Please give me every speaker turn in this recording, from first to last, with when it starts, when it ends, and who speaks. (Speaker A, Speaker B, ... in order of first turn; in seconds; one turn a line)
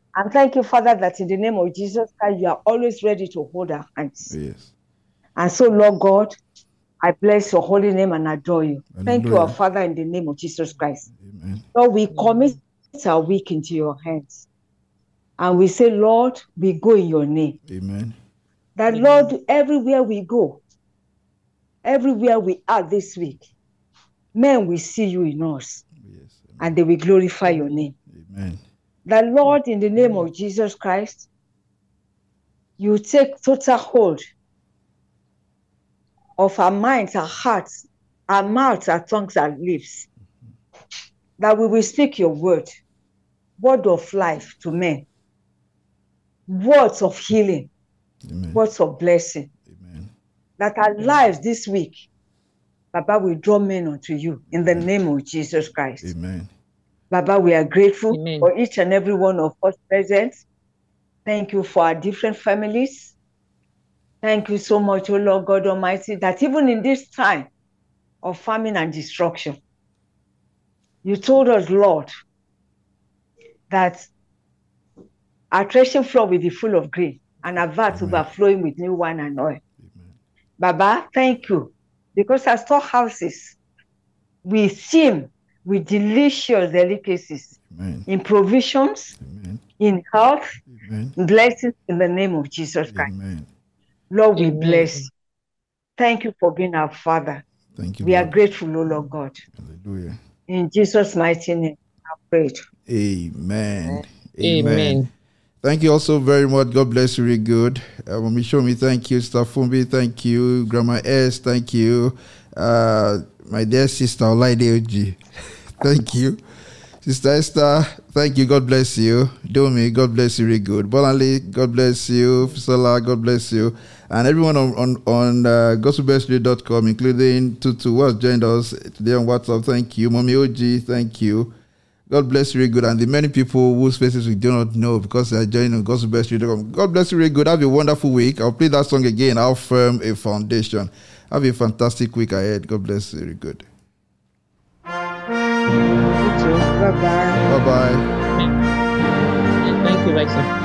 Speaker A: 0.1-4.3
Speaker B: 4.3-4.7
Speaker A: 5.3-6.3
Speaker A: 7.0-11.1
Speaker B: 8.9-9.6
Speaker B: 11.1-11.7
Speaker A: 11.7-14.4
Speaker A: 15.4-17.6
Speaker B: 17.7-18.1
Speaker A: 18.8-20.6
Speaker A: 21.8-23.5
Speaker A: 24.3-25.8
Speaker B: 26.0-26.7
Speaker A: 26.6-27.9
Speaker B: 28.1-28.6
Speaker A: 29.1-31.3
Speaker A: 32.8-34.2
Speaker A: 36.4-40.1
Speaker A: 41.4-42.7
Speaker A: 43.6-45.0
Speaker A: 46.5-47.7
Speaker B: 48.2-48.6
Speaker A: 48.5-49.5
Speaker B: 49.6-50.1
Speaker A: 50.6-52.0
Speaker A: 52.9-56.1
Speaker B: 54.6-54.9
Speaker B: 56.0-56.5
Speaker A: 57.1-60.4
Speaker C: 58.2-58.4
Speaker A: 61.3-63.1
Speaker A: 64.2-67.5
Speaker A: 68.2-69.6
Speaker A: 71.0-72.1
Speaker A: 73.7-74.1
Speaker A: 75.5-79.6
Speaker B: 77.9-78.3
Speaker B: 79.8-80.1
Speaker A: 80.6-83.6
Speaker A: 84.4-89.1
Speaker B: 87.7-88.1
Speaker B: 89.2-89.6
Speaker A: 89.8-90.5
Speaker B: 90.7-91.1
Speaker A: 91.2-93.1
Speaker B: 92.9-93.5
Speaker A: 94.1-95.1
Speaker C: 94.4-94.7
Speaker A: 96.0-97.4
Speaker B: 97.8-98.3
Speaker A: 98.0-99.4
Speaker B: 99.5-100.2
Speaker A: 100.5-102.6
Speaker B: 102.9-105.1
Speaker C: 104.4-105.0
Speaker B: 105.6-115.2
Speaker B: 115.8-116.4
Speaker B: 117.0-131.5
Speaker B: 132.1-143.6
Speaker A: 146.2-147.4
Speaker B: 147.4-148.1
Speaker C: 149.7-150.5